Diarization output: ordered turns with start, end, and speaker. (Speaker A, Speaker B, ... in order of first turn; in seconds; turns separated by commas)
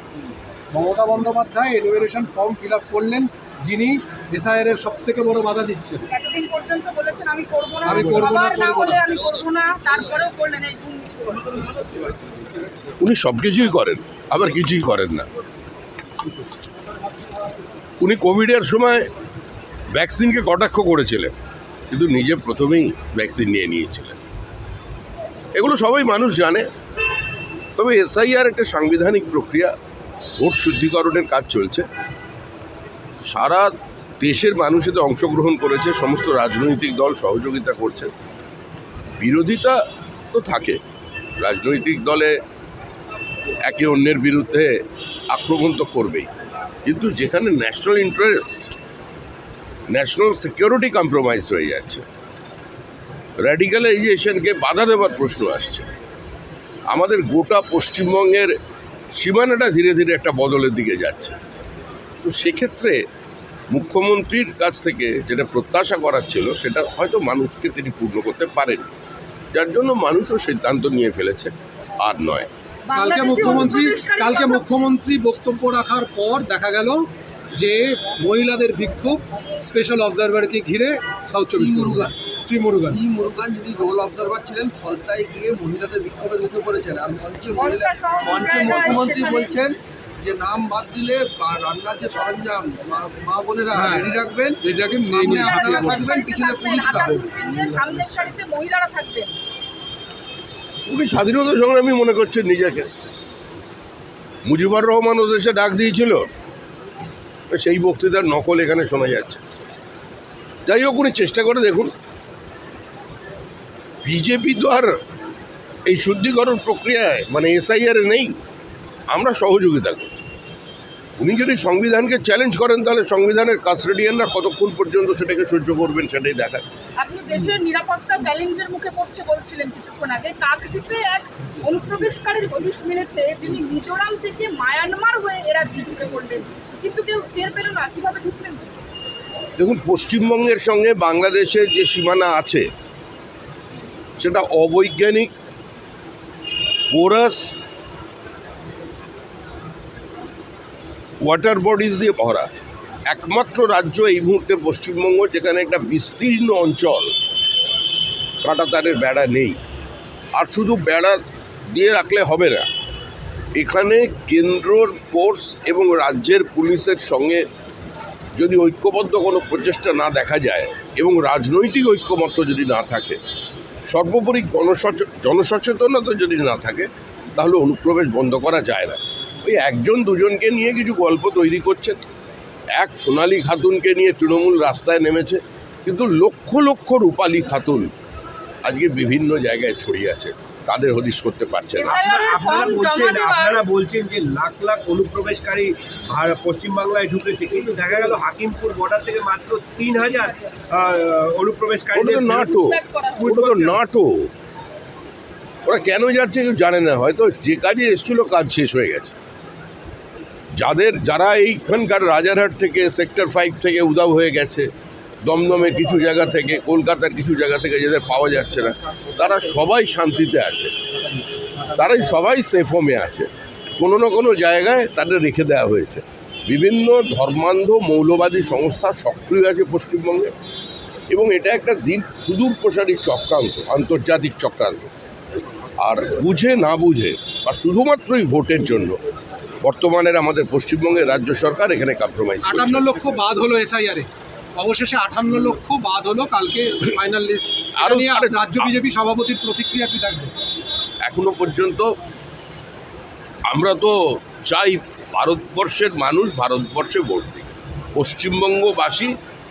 Speaker A: 0.7-6.0, Speaker B: 6.1-11.6, Speaker A: 7.8-9.0, Speaker C: 13.0-15.3, Speaker C: 18.0-19.1, Speaker C: 19.9-21.3, Speaker C: 21.9-24.2, Speaker C: 25.5-26.7, Speaker C: 27.8-29.7, Speaker C: 30.4-31.9, Speaker C: 33.3-38.1, Speaker C: 39.2-39.8, Speaker C: 40.3-40.8, Speaker C: 41.4-42.3, Speaker C: 43.6-44.8, Speaker C: 45.3-46.3, Speaker C: 46.8-48.6, Speaker C: 49.9-52.0, Speaker C: 53.4-55.9, Speaker C: 56.9-58.5, Speaker C: 59.2-61.4, Speaker C: 62.2-63.0, Speaker C: 63.7-68.9, Speaker C: 69.5-72.5, Speaker B: 72.9-74.6, Speaker A: 72.9-83.0, Speaker D: 81.5-82.1, Speaker D: 82.9-97.2, Speaker B: 87.5-89.6, Speaker A: 93.7-96.2, Speaker B: 95.2-99.3, Speaker A: 96.9-97.2, Speaker C: 100.8-102.9, Speaker C: 104.5-106.3, Speaker C: 107.5-109.4, Speaker C: 110.7-111.9, Speaker C: 114.0-114.9, Speaker C: 115.9-118.3, Speaker C: 119.1-120.2, Speaker C: 121.2-126.6, Speaker B: 127.0-138.8, Speaker C: 139.6-142.7, Speaker C: 144.2-145.3, Speaker C: 146.9-147.6, Speaker C: 151.2-152.5, Speaker C: 153.1-157.1, Speaker C: 158.4-159.6, Speaker C: 160.3-162.7, Speaker C: 163.6-167.4, Speaker C: 168.3-173.2, Speaker C: 173.9-182.0, Speaker C: 182.8-187.9, Speaker C: 188.6-192.0, Speaker B: 191.8-193.6, Speaker E: 191.8-202.6, Speaker C: 201.9-204.3, Speaker B: 202.5-203.3, Speaker E: 203.2-203.8, Speaker C: 205.7-209.1, Speaker C: 210.6-214.7, Speaker C: 215.2-220.7, Speaker C: 221.7-230.3, Speaker C: 231.1-234.9, Speaker C: 235.8-239.0, Speaker C: 239.6-242.9, Speaker A: 242.4-250.3, Speaker C: 247.8-248.7, Speaker C: 251.0-251.8, Speaker C: 253.5-259.1